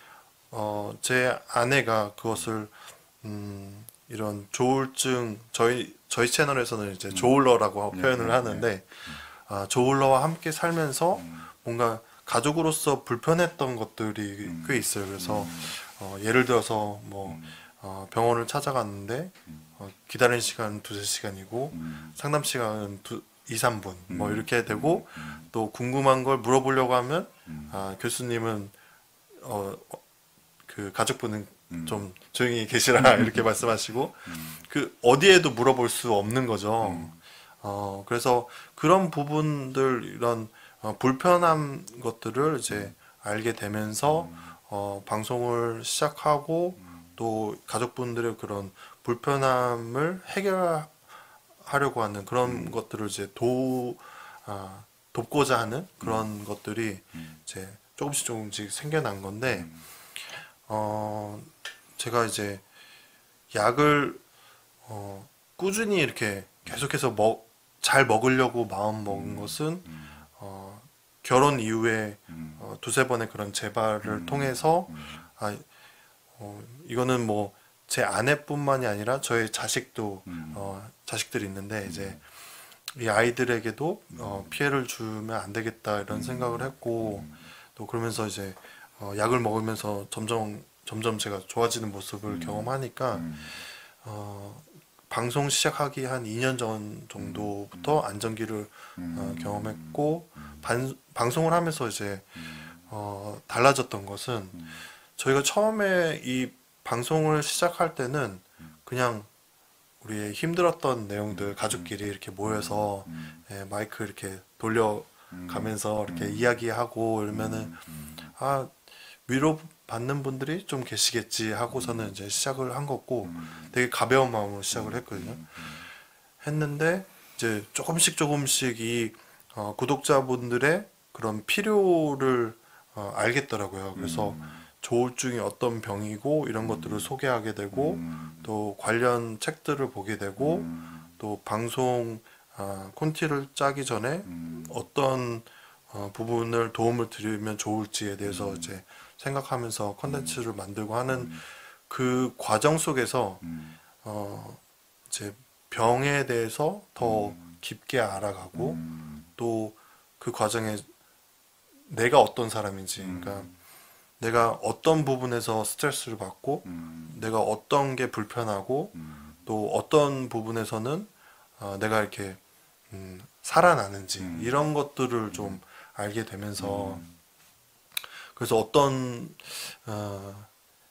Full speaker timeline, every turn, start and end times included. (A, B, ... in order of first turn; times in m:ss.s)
0:00.5-0:28.7 A
0:07.9-0:09.2 B
0:11.1-0:11.5 B
0:14.4-0:15.7 B
0:17.2-0:17.6 B
0:21.7-0:22.2 B
0:24.1-0:25.5 B
0:27.4-0:27.8 B
0:29.4-0:30.0 A
0:30.6-0:51.0 A
0:31.7-0:32.1 B
0:33.0-0:33.6 B
0:34.2-0:34.6 B
0:36.8-0:37.2 B
0:44.1-0:44.6 B
0:51.6-0:59.7 A
0:52.4-0:52.7 B
0:56.0-0:56.3 B
0:59.5-0:59.8 B
1:00.3-1:02.6 A
1:03.5-1:04.2 A
1:04.8-1:15.6 A
1:09.1-1:10.2 B
1:12.3-1:12.6 B
1:14.0-1:15.2 B
1:16.4-1:22.2 A
1:20.2-1:20.7 B
1:21.8-1:22.2 B
1:22.9-1:33.3 A
1:24.1-1:24.6 B
1:26.1-1:27.5 B
1:32.3-1:33.6 B
1:34.0-1:44.6 A
1:37.2-1:38.0 B
1:39.0-1:40.6 B
1:42.4-1:42.7 B
1:44.5-1:44.8 B
1:45.1-1:49.3 A
1:50.0-1:57.8 A
1:51.3-1:53.4 B
1:55.3-1:56.6 B
1:57.3-1:58.3 B
1:58.3-1:58.7 A
1:59.2-2:05.5 A
2:01.7-2:02.1 B
2:03.2-2:03.7 B
2:04.7-2:05.9 B
2:06.4-2:33.4 A
2:13.9-2:14.6 B
2:16.6-2:17.1 B
2:17.7-2:18.5 B
2:20.4-2:21.1 B
2:24.2-2:24.8 B
2:28.2-2:28.8 B
2:30.0-2:30.4 B
2:31.1-2:31.4 B
2:33.4-2:33.8 B
2:34.0-2:38.8 A
2:37.0-2:37.5 B
2:38.5-2:39.3 B
2:39.3-2:40.9 A
2:41.9-2:43.5 A
2:43.0-2:43.6 B
2:44.2-2:52.4 A
2:46.6-2:47.2 B
2:48.9-2:49.4 B
2:52.9-2:57.0 A
2:54.2-2:54.5 B
2:55.3-2:55.6 B
2:56.6-2:57.2 B
2:58.3-3:00.5 A